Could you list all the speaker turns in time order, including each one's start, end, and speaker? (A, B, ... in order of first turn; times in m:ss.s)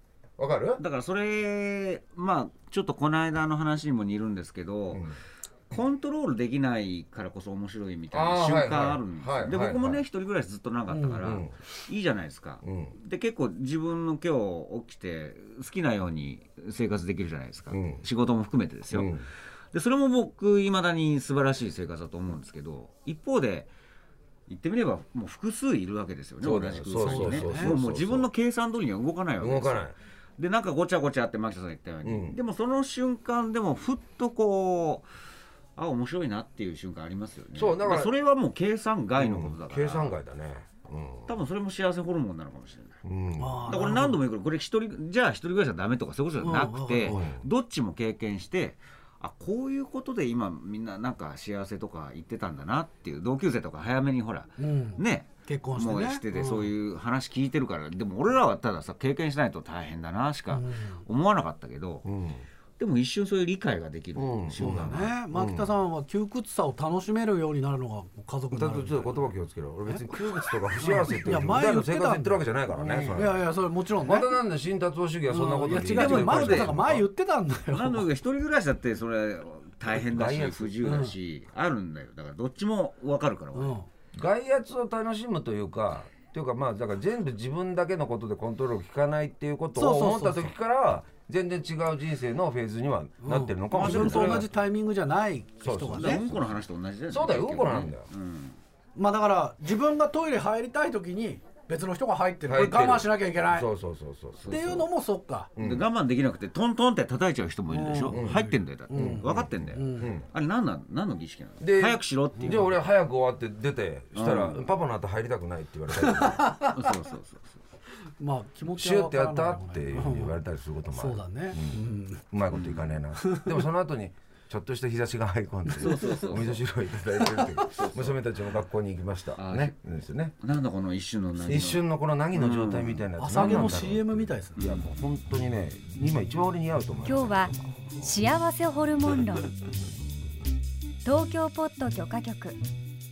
0:00.4-0:00.8 A
0:00.8-0:05.1 B
0:05.7-0:23.7 B
0:08.1-0:10.0 A
0:10.9-0:11.2 C
0:11.2-0:11.5 A
0:12.6-0:13.0 A
0:17.7-0:18.0 A
0:18.9-0:19.3 A
0:24.5-0:35.1 B
0:26.4-0:28.3 A
0:27.0-0:27.8 C
0:29.4-0:30.0 A
0:32.0-0:32.4 A
0:35.8-0:40.2 B
0:37.6-0:38.1 A
0:39.2-0:41.3 A
0:41.3-0:43.0 B
0:43.0-0:43.7 A
0:43.4-0:44.2 C
0:43.7-1:02.1 B
0:46.4-0:47.2 C
0:47.1-0:47.4 A
0:54.6-0:56.7 C
1:00.5-1:01.0 C
1:02.0-1:02.4 A
1:02.8-1:05.2 B
1:04.2-1:05.7 A
1:04.6-1:09.3 C
1:08.5-1:13.5 A
1:10.8-1:14.3 C
1:14.0-1:17.0 A
1:15.3-1:18.1 C
1:15.8-1:16.8 B
1:17.7-1:23.8 B
1:20.0-1:20.8 A
1:20.8-1:21.1 C
1:23.5-1:23.9 C
1:24.2-1:34.5 A
1:29.8-1:30.5 C
1:33.2-1:36.3 C
1:33.8-1:34.5 B
1:35.6-1:38.1 A
1:35.9-1:38.6 B
1:39.0-1:43.7 C
1:42.5-1:44.8 A
1:44.4-1:44.9 B
1:44.5-1:45.5 C
1:45.6-1:45.9 A
1:45.6-1:52.8 B
1:47.7-1:50.2 C
1:48.1-1:50.3 A
1:51.6-1:56.7 A
1:52.4-1:52.7 C
1:54.2-1:54.7 B
1:55.9-1:56.7 C
1:56.7-1:57.6 B
1:58.2-2:00.4 C
1:58.7-2:01.8 A
2:00.9-2:02.2 C
2:02.3-2:10.3 A
2:02.5-2:03.0 B
2:03.2-2:03.6 C
2:05.8-2:06.6 B
2:05.8-2:06.1 C
2:07.6-2:08.2 B
2:09.4-2:09.8 B
2:10.4-2:13.8 B
2:11.4-2:17.6 A
2:13.2-2:14.6 C
2:14.6-2:14.9 B
2:17.1-2:19.6 D
2:21.0-2:22.6 D